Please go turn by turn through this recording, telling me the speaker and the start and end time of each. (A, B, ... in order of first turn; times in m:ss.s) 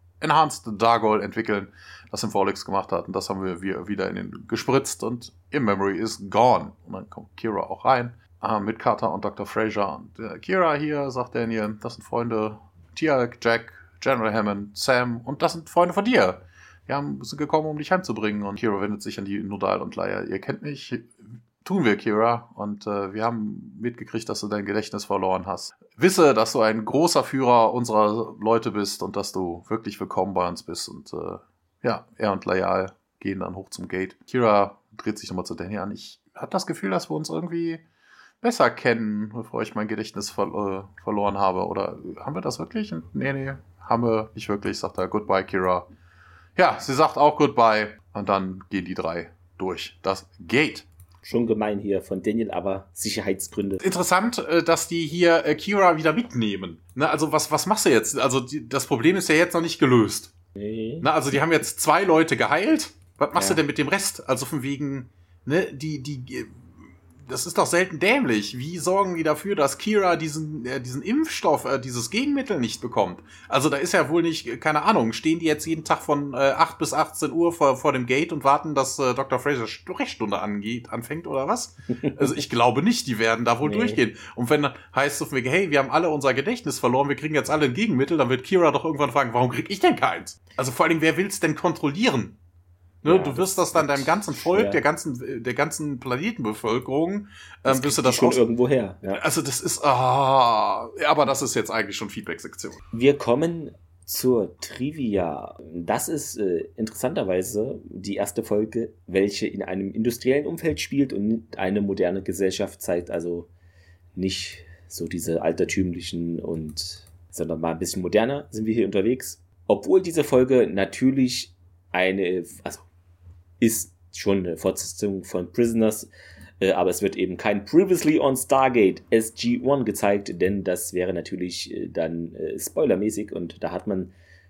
0:00.2-0:37.8 A
0:38.4-0:45.9 A
0:46.6-0:50.9 A
0:51.2-0:53.8 B
0:53.8-1:00.3 A
1:00.6-1:01.1 B
1:01.0-1:06.6 A
1:03.4-1:03.6 B
1:07.2-1:32.4 A
1:23.6-1:24.0 B
1:33.0-1:38.4 A
1:33.0-1:34.8 B
1:37.7-1:39.2 B
1:39.1-1:42.8 A
1:42.9-1:53.5 B
1:54.2-2:02.8 B
2:03.6-2:06.1 B
2:06.6-2:14.1 B